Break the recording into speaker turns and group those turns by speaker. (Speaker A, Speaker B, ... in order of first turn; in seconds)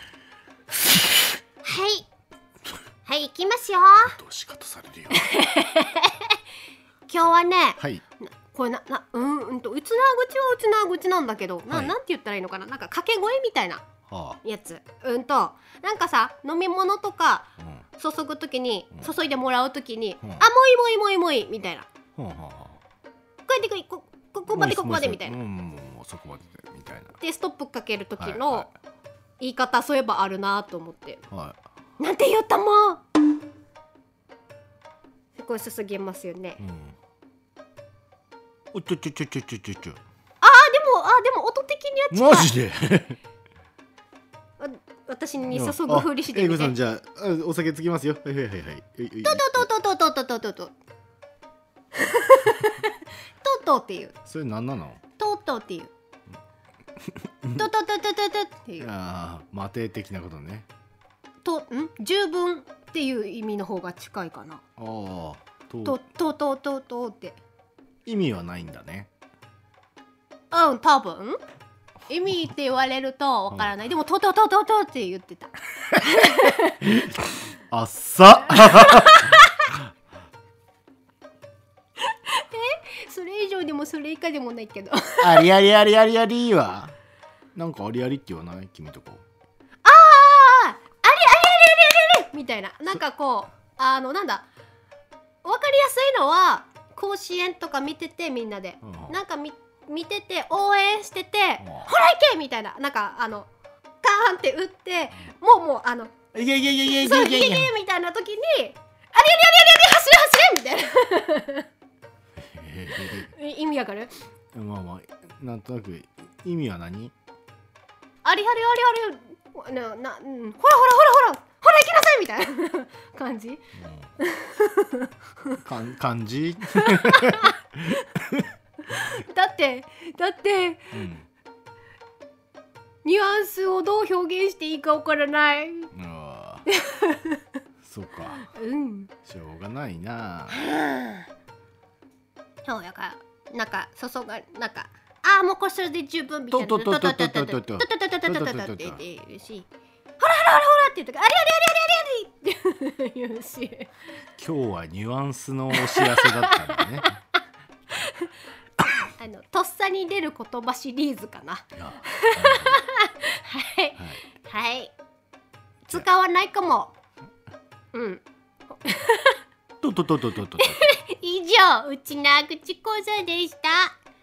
Speaker A: 1.6-2.1, 3.0-4.2, 5.1-6.4, 7.1-13.8, 14.4-21.9, 23.5-25.4, 27.2-28.7, 29.4-31.2, 32.0-33.0, 35.4-36.6, 40.4-42.5, 44.6-46.8, 49.2-50.7, 51.9-54.1, 55.2-55.9, 57.5-58.9, 61.4-64.6, 65.8-67.4, 70.5-71.4, 72.1-76.8, 78.7-79.6, 82.1-85.5, 89.8-94.5, 95.4-103.5, 104.0-106.2, 106.8-111.7, 113.0-114.1, 118.2-123.6, 124.2-125.6, 126.8-127.5, 128.8-131.0, 133.0-135.9, 136.7-137.4, 138.5-139.1, 140.5-141.3, 142.6-153.9, 155.7-157.1, 157.9-158.3, 159.1-164.9, 165.8-166.9, 167.9-169.4, 170.6-173.9
Speaker B: 4.0-5.3, 11.7-11.9, 14.1-14.4, 17.6-17.8, 22.2-22.8, 24.5-27.2, 28.2-28.7, 31.3-31.6, 36.6-37.0, 38.7-40.0, 42.1-43.2, 45.5-49.7, 54.2-55.0, 58.8-60.7, 64.8-66.0, 68.0-69.1, 76.8-79.4, 85.2-87.0, 87.5-89.2, 98.8-99.2, 101.6-101.9, 106.3-107.7, 112.4-113.3, 114.5-117.1, 123.8-124.1, 125.6-128.5, 130.9-131.3, 135.9-136.7, 137.8-138.5, 139.2-140.6, 146.5-149.0, 154.4-157.1, 161.8-162.8, 169.8-170.8